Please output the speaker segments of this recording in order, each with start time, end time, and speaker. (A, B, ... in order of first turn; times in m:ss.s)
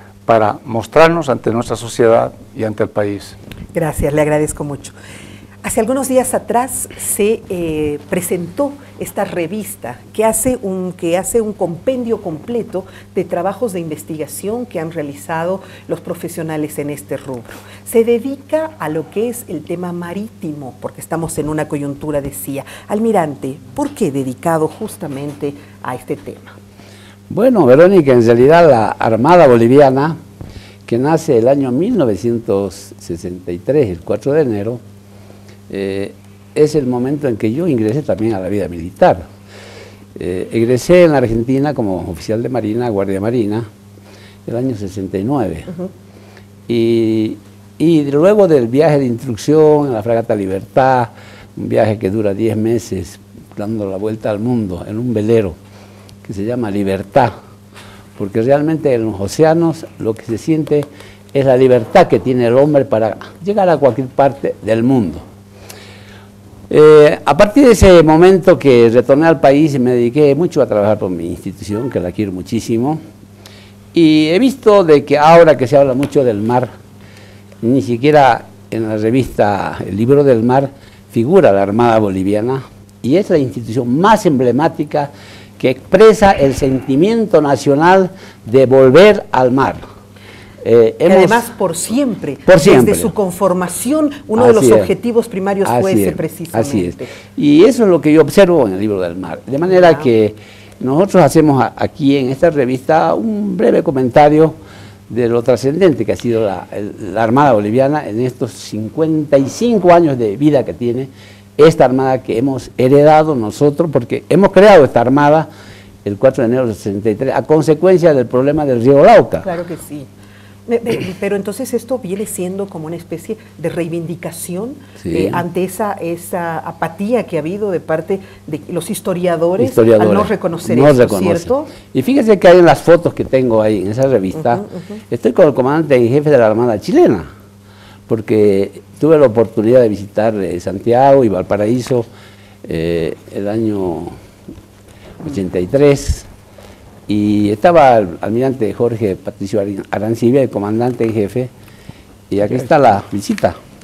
0:00.2-0:03.4 A
0:03.7-0:04.9 B
0:05.6-0:26.6 B
0:27.3-0:30.2 C
0:30.9-0:34.8 C
0:35.7-0:39.2 C
0:40.1-0:43.7 C
0:44.4-0:45.7 C
0:46.7-0:55.6 C
0:56.2-0:57.3 C
0:58.2-1:05.2 C
1:06.7-1:13.0 C
1:13.9-1:16.7 C
1:17.6-1:29.8 C
1:30.6-1:31.5 C
1:31.0-1:37.1 B
1:32.5-1:33.1 C
1:34.3-1:34.9 C
1:35.6-1:44.6 C
1:45.1-1:55.5 C
1:56.0-1:59.5 C
1:59.4-2:00.1 B
2:00.7-2:11.7 B
2:05.0-2:05.4 C
2:09.6-2:17.3 C
2:18.1-2:22.1 C
2:22.6-2:24.1 C
2:25.2-2:26.3 C
2:27.1-2:31.5 C
2:32.3-2:33.6 C